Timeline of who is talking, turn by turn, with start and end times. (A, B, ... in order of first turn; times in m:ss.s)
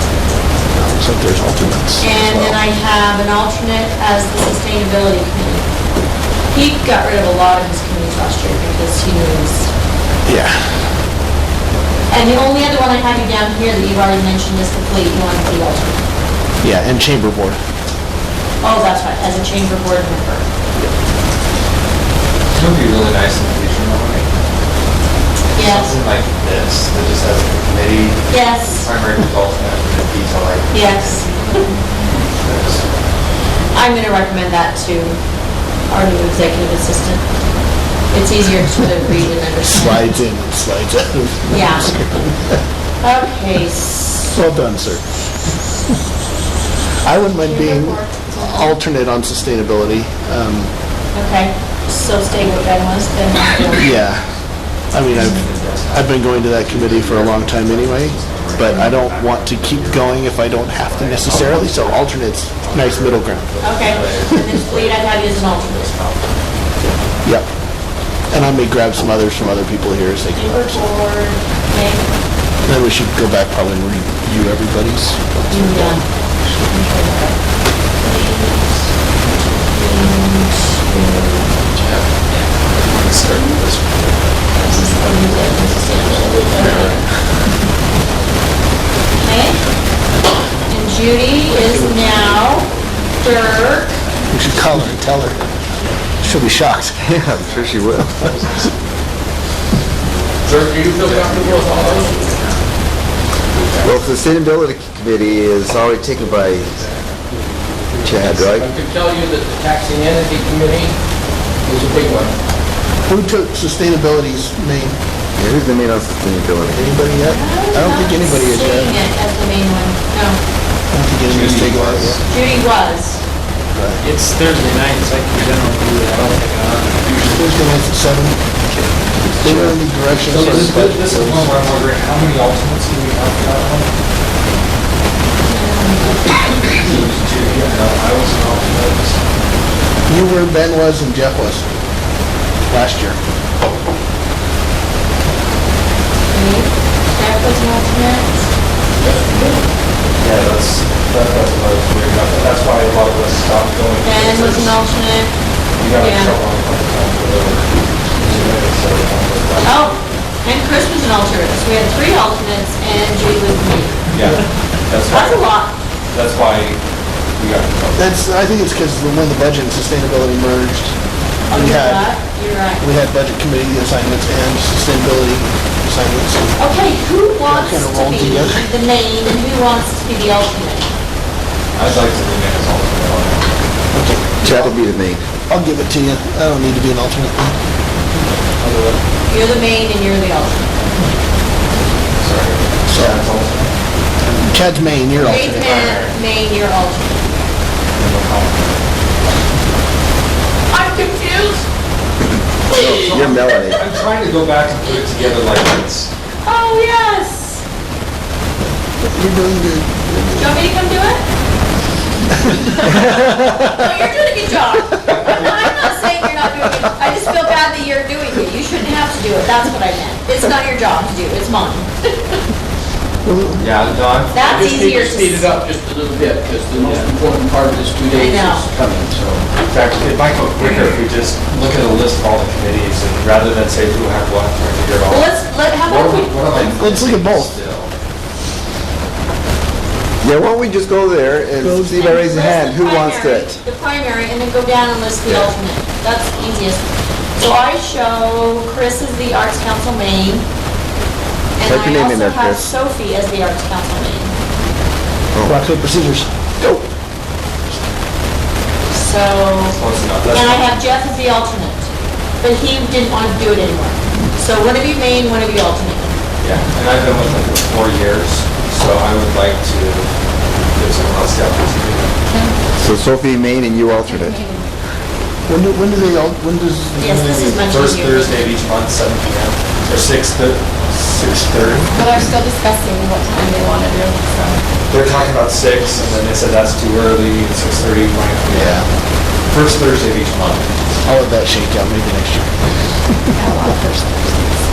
0:00.7-0:02.6 A
0:02.0-0:05.7 B
0:06.5-0:09.7 B
0:10.3-0:11.0 A
0:12.1-0:16.0 B
0:16.6-0:17.6 A
0:18.6-0:20.4 B
0:22.5-0:24.3 C
0:25.5-0:26.0 B
0:25.6-0:33.0 C
0:28.3-0:28.9 B
0:30.7-0:31.3 B
0:33.7-0:35.2 B
0:35.9-0:37.2 B
0:38.1-0:40.2 B
0:39.7-0:42.6 A
0:41.5-0:41.9 B
0:43.0-0:44.3 B
0:44.3-0:45.0 A
0:47.0-0:50.7 A
0:47.4-0:48.8 D
0:51.2-0:54.0 B
0:53.8-0:54.3 A
0:54.9-1:04.4 A
0:55.1-0:55.4 B
0:55.3-1:06.2 C
0:58.7-0:58.9 B
1:03.6-1:06.2 B
1:08.3-1:10.9 A
1:10.4-1:12.1 B
1:12.6-1:16.0 A
1:15.5-1:16.0 B
1:16.6-1:17.4 B
1:18.0-1:18.7 B
1:19.7-1:21.6 B
1:21.8-1:24.9 C
1:23.3-1:23.6 B
1:24.6-1:27.0 B
1:26.0-1:27.0 E
1:26.6-1:26.9 C
1:29.2-1:29.6 B
1:30.7-1:34.0 B
1:31.5-1:32.6 E
1:34.3-1:35.4 A
1:36.2-1:37.1 A
1:37.0-1:38.3 F
1:37.5-1:37.8 C
1:38.3-1:39.0 C
1:40.4-1:42.3 E
1:41.0-1:42.0 C
1:43.5-1:44.0 C
1:43.8-1:46.8 F
1:46.7-1:47.2 C
1:47.3-1:48.4 G
1:48.0-1:48.7 F
1:48.4-1:51.0 E
1:51.6-1:52.4 E
1:53.0-1:55.0 A
1:55.4-1:56.9 F
1:56.7-1:59.1 A
1:57.2-2:00.4 B
2:00.9-2:02.2 A
2:01.2-2:02.3 C
2:02.3-2:03.2 B
2:03.7-2:04.0 A
2:04.0-2:07.6 G
2:07.2-2:08.4 A
2:08.7-2:08.9 G
2:09.4-2:11.8 A
2:09.4-2:09.8 F
2:10.3-2:13.9 C
2:15.4-2:16.7 B
2:16.7-2:19.2 C
2:20.1-2:21.6 A
2:22.7-2:23.2 A
2:26.3-2:28.5 B
2:29.3-2:29.6 B
2:30.2-2:34.8 C
2:34.0-2:35.3 B
2:35.8-2:40.1 C
2:36.0-2:36.4 B
2:39.6-2:44.0 B
2:44.1-2:45.5 C
2:45.1-2:45.8 B
2:46.1-2:46.8 C
2:47.4-2:48.2 C
2:48.0-2:51.0 A
2:51.5-2:52.9 B
2:51.5-2:52.1 A
2:52.8-2:56.6 A
2:56.6-3:00.9 B
2:57.5-2:58.7 A
3:01.8-3:03.6 C
3:03.9-3:04.8 A
3:04.4-3:05.2 F
3:05.5-3:07.6 A
3:08.6-3:09.0 G
3:09.3-3:10.9 B
3:12.2-3:13.7 C
3:12.9-3:13.2 A
3:14.3-3:15.8 A
3:15.2-3:17.5 B
3:15.6-3:16.2 C
3:17.9-3:18.8 C
3:20.7-3:21.7 B
3:22.7-3:23.2 B
3:22.7-3:23.8 F
3:22.8-3:26.1 C
3:26.4-3:27.6 B
3:29.0-3:30.5 A
3:30.4-3:31.2 B
3:32.5-3:33.0 A
3:33.6-3:42.4 B
3:35.1-3:35.5 C
3:43.2-3:43.7 A
3:43.6-3:44.6 C
3:44.3-3:45.5 B
3:44.4-3:49.2 E
3:46.8-3:47.1 C
3:48.1-3:48.7 B
3:49.5-3:57.9 C
3:55.1-3:56.4 B
3:56.5-3:57.6 A
4:00.2-4:03.6 F
4:01.6-4:02.0 A
4:02.0-4:10.5 B
4:05.2-4:05.5 F
4:11.6-4:14.3 B
4:11.6-4:12.7 F
4:15.3-4:15.7 F
4:15.4-4:16.8 A
4:18.9-4:21.9 B
4:19.7-4:20.7 C
4:22.4-4:26.1 B
4:26.4-4:30.1 C
4:30.7-4:32.2 C
4:32.3-4:32.6 D
4:32.8-4:34.4 F
4:34.0-4:34.7 D
4:35.5-4:37.6 A
4:37.0-4:38.5 B
4:37.6-4:41.9 C
4:41.9-4:44.6 D
4:44.9-4:48.9 C
4:48.5-4:48.9 A
4:49.5-4:50.7 C
4:51.0-4:52.5 A
4:53.4-4:54.6 D